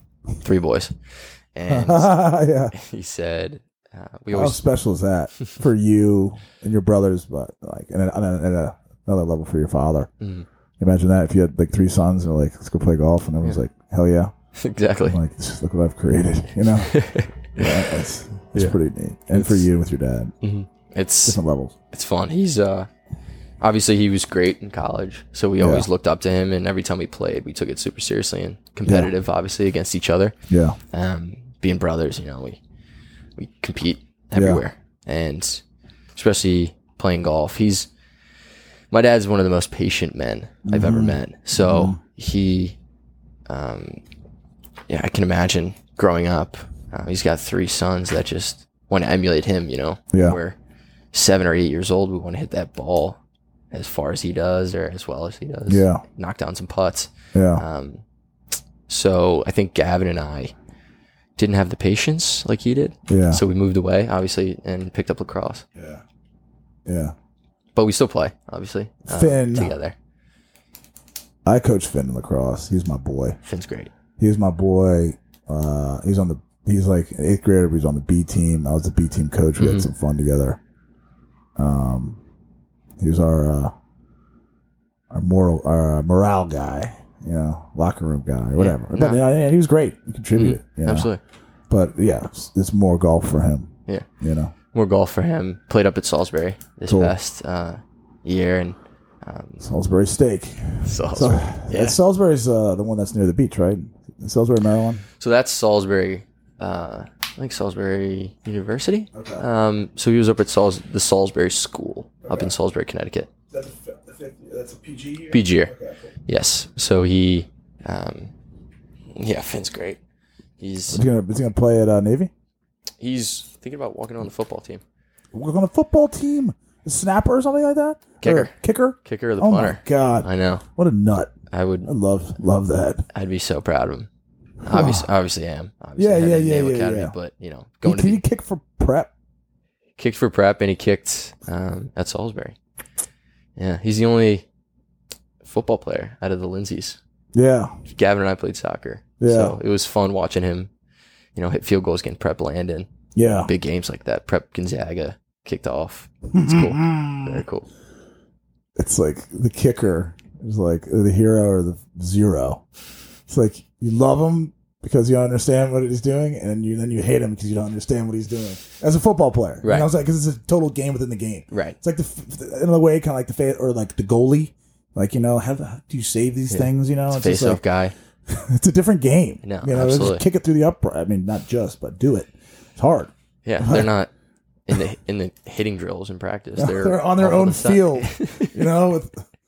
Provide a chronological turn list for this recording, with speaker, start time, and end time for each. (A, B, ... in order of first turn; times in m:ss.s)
0:00.4-0:01.0 A
0:01.5-0:02.2 A
0:01.7-0:02.7 B
0:02.7-0:04.6 A
0:04.3-0:10.1 B
0:10.2-0:10.5 A
0:10.8-0:14.3 B
0:14.6-0:15.2 A
0:15.0-0:17.0 B
0:16.8-0:17.9 A
0:17.6-0:20.3 B
0:19.3-0:19.6 A
0:20.4-0:21.4 A
0:21.2-0:21.8 B
0:21.9-0:22.9 A
0:23.6-0:30.4 A
0:25.6-0:25.9 B
0:28.9-0:29.1 B
0:30.5-0:30.8 B
0:30.9-0:32.6 A
0:33.4-0:35.6 A
0:34.4-0:34.6 B
0:36.2-0:37.9 A
0:38.9-0:42.8 A
0:40.7-0:42.0 B
0:43.5-0:44.0 A
0:44.9-0:50.6 A
0:50.1-0:50.4 B
0:51.1-0:53.2 A
0:53.7-0:58.0 A
0:55.7-0:56.0 B
0:57.3-0:57.6 B
0:58.9-1:00.6 A
1:01.4-1:05.6 A
1:03.1-1:03.4 B
1:05.8-1:06.0 B
1:06.9-1:07.1 B
1:07.8-1:10.0 A
1:09.1-1:09.8 B
1:11.5-1:13.4 B
1:13.4-1:13.9 A
1:14.2-1:20.6 B
1:19.6-1:19.9 A
1:21.6-1:22.2 B
1:23.0-1:23.7 B
1:25.1-1:31.1 B
1:28.6-1:29.3 A
1:30.3-1:31.2 A
1:31.7-1:34.5 B
1:34.7-1:39.6 A
1:36.9-1:37.1 B
1:39.6-1:45.0 B
1:40.8-1:42.0 A
1:45.2-1:53.3 A
1:49.1-1:49.4 B
1:52.2-1:52.5 B
1:53.5-1:56.0 B
1:55.3-1:55.7 A
1:56.3-1:58.3 A
1:59.1-2:00.0 A
2:00.6-2:01.0 A
2:00.9-2:02.3 B
2:03.0-2:04.8 A
2:05.3-2:11.3 B
2:08.2-2:10.6 A
2:11.5-2:11.9 A
2:11.8-2:13.1 B
2:13.1-2:14.1 A
2:14.6-2:15.1 B
2:14.6-2:18.2 A
2:16.0-2:17.1 B
2:17.8-2:19.1 B
2:20.0-2:22.6 A
2:23.6-2:24.5 A
2:25.4-2:27.0 A
2:27.4-2:27.8 B
2:27.9-2:30.7 A
2:29.2-2:29.6 B
2:31.4-2:37.7 A
2:33.2-2:33.5 B
2:36.3-2:37.4 B
2:38.8-2:42.6 B
2:43.3-2:57.6 B
2:49.6-2:49.9 A
2:51.5-2:51.8 A
2:56.5-2:57.9 A
2:58.3-3:03.9 B
2:59.4-3:00.2 A
3:03.4-3:04.1 A
3:04.7-3:08.7 A
3:06.6-3:09.2 B